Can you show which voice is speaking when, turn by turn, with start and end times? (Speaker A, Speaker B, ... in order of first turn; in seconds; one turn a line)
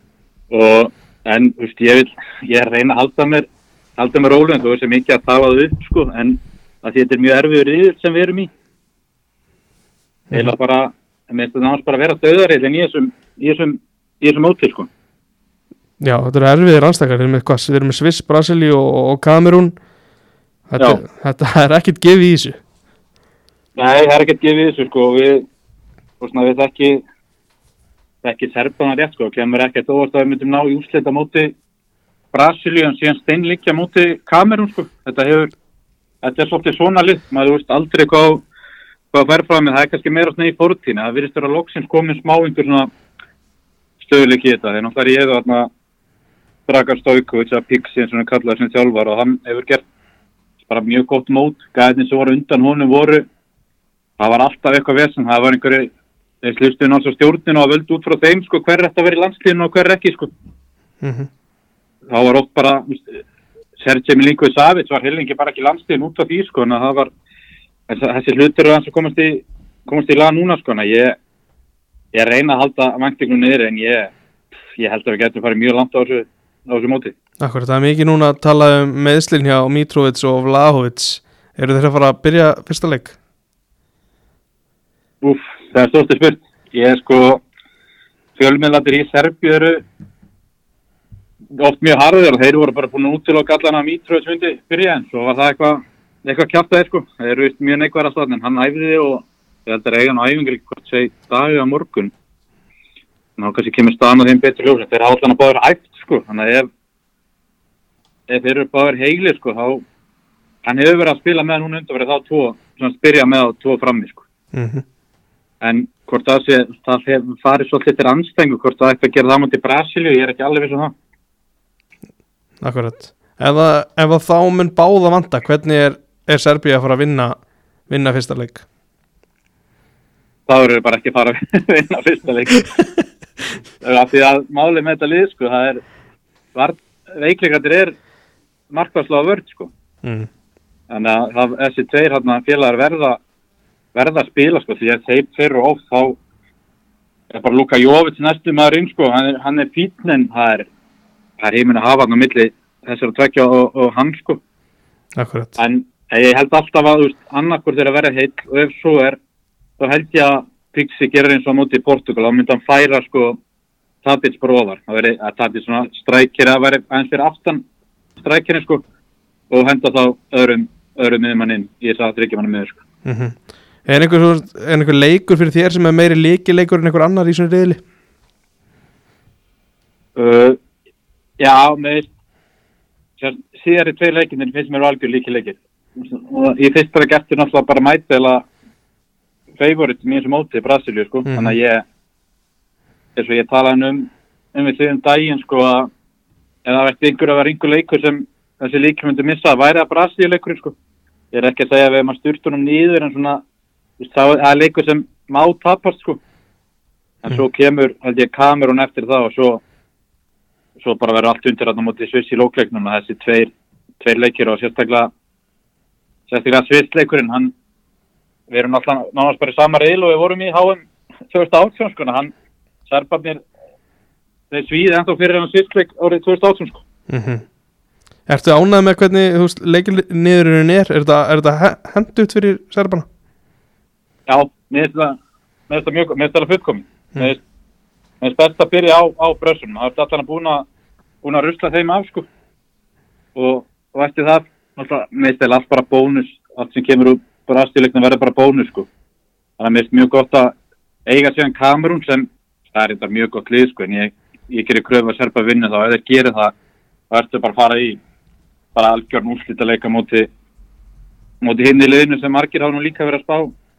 Speaker A: 0.5-8.5
Speaker A: 10.3-14.9
Speaker B: 16.0-19.8
Speaker B: 20.7-22.6
Speaker A: 23.8-25.4
Speaker A: 26.2-27.0
Speaker A: 28.2-31.6
Speaker A: 32.3-35.5
Speaker A: 36.2-38.4
Speaker A: 39.1-42.9
Speaker A: 44.0-45.7
Speaker A: 46.7-49.8
Speaker A: 50.7-53.3
Speaker A: 54.2-55.9
Speaker A: 56.4-60.3
Speaker B: 61.0-61.3
Speaker A: 62.1-63.2
Speaker A: 63.8-67.1
Speaker A: 67.9-71.2
Speaker A: 72.1-74.1
Speaker A: 74.8-77.1
Speaker B: 77.4-83.1
Speaker A: 85.2-87.4
Speaker A: 88.4-89.8
Speaker A: 91.6-102.1
Speaker A: 103.4-106.7
Speaker A: 108.3-109.8
Speaker A: 110.7-114.2
Speaker B: 114.5-114.8
Speaker A: 115.6-120.9
Speaker B: 122.6-128.6
Speaker A: 130.5-132.7
Speaker A: 133.8-135.8
Speaker A: 136.5-137.9
Speaker A: 138.7-139.7
Speaker A: 140.9-143.2
Speaker A: 143.9-146.2
Speaker A: 147.3-150.7
Speaker A: 151.4-154.4
Speaker B: 155.2-155.6
Speaker A: 155.6-159.2
Speaker A: 159.8-163.4
Speaker A: 164.0-167.6
Speaker A: 168.2-168.8
Speaker A: 169.5-172.8
Speaker B: 173.1-177.8
Speaker A: 180.2-180.6
Speaker A: 181.4-182.1
Speaker A: 183.2-188.4
Speaker A: 189.6-191.8
Speaker B: 191.3-191.6
Speaker A: 193.2-195.9
Speaker A: 196.7-200.8
Speaker A: 201.3-203.4
Speaker A: 204.0-206.2
Speaker A: 207.2-209.6
Speaker A: 210.8-215.1
Speaker A: 216.3-217.5
Speaker A: 218.5-222.3
Speaker A: 222.9-223.4
Speaker A: 224.5-226.8
Speaker B: 227.1-227.4
Speaker B: 228.3-233.1
Speaker A: 234.3-235.2
Speaker A: 235.7-237.4
Speaker A: 238.2-240.7
Speaker A: 241.2-242.3
Speaker A: 243.3-248.9
Speaker A: 249.6-250.5
Speaker A: 251.1-256.5
Speaker A: 257.1-258.0
Speaker A: 258.8-260.3
Speaker A: 261.4-263.5